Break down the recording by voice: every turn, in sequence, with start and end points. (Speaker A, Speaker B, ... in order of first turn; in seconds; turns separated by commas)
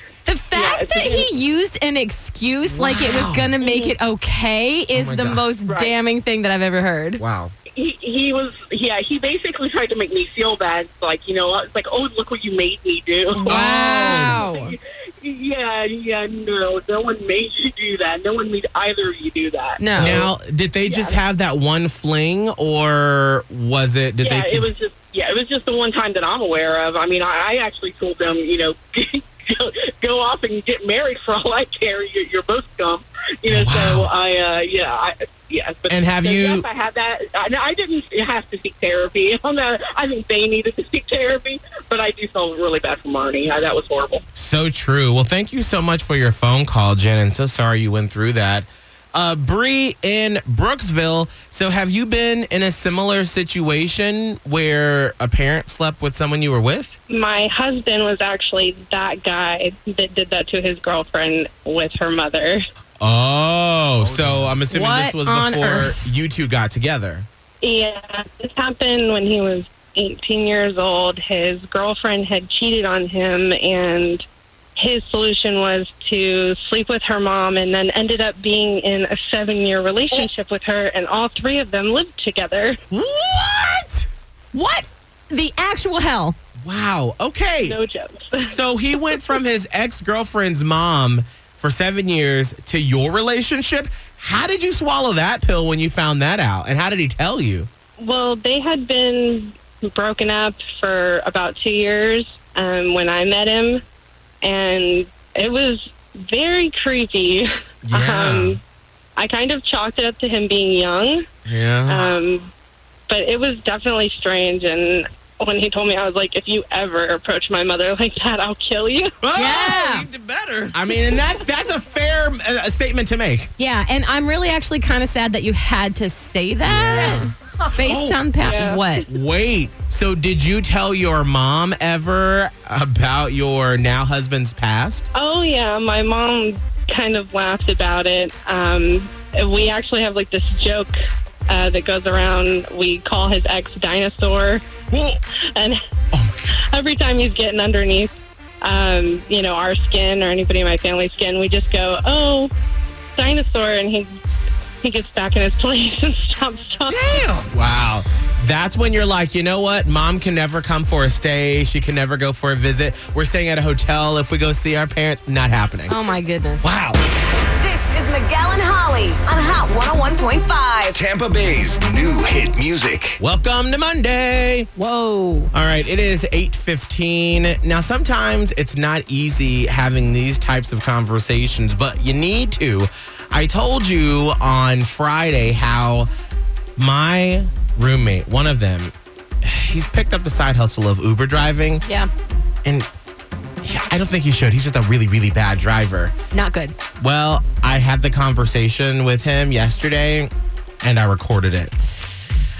Speaker A: 0.2-7.2, Speaker B: 0.5-1.3, Speaker C: 2.6-3.5, Speaker C: 4.9-5.4, Speaker B: 5.7-5.9, Speaker C: 7.2-7.5, Speaker B: 7.7-20.2, Speaker A: 13.3-14.8, Speaker C: 13.5-14.4, Speaker A: 19.8-20.3, Speaker C: 20.0-24.7, Speaker B: 20.8-21.2, Speaker B: 24.2-44.2, Speaker C: 33.5-34.1, Speaker C: 35.9-36.6, Speaker C: 44.4-57.0, Speaker D: 57.1-62.6, Speaker C: 63.0-67.3, Speaker A: 64.7-66.0, Speaker D: 67.6-74.2, Speaker D: 74.8-82.8, Speaker C: 82.9-84.1, Speaker A: 84.5-86.3, Speaker C: 86.6-87.8, Speaker D: 87.6-88.5, Speaker C: 88.4-97.7, Speaker D: 98.0-103.8, Speaker D: 104.4-108.6, Speaker C: 107.8-108.6, Speaker D: 109.2-111.2, Speaker C: 111.5-112.1, Speaker D: 111.8-112.5, Speaker D: 113.1-119.1, Speaker C: 119.2-123.5, Speaker A: 119.3-120.1, Speaker A: 123.6-129.1, Speaker C: 126.7-135.1, Speaker D: 128.4-128.8, Speaker D: 135.1-140.9, Speaker D: 141.5-144.6, Speaker C: 144.9-145.2, Speaker C: 146.1-146.5, Speaker D: 146.6-152.5, Speaker D: 153.1-154.2, Speaker D: 154.8-157.3, Speaker C: 156.9-165.9, Speaker A: 165.9-166.7, Speaker C: 166.6-167.0, Speaker E: 167.6-171.0, Speaker F: 170.9-173.2, Speaker C: 173.2-174.7, Speaker A: 174.8-175.5, Speaker C: 175.5-186.1, Speaker C: 186.8-191.8, Speaker A: 191.8-192.1, Speaker C: 193.6-196.1, Speaker A: 196.3-196.8, Speaker C: 197.0-200.3, Speaker C: 200.8-202.1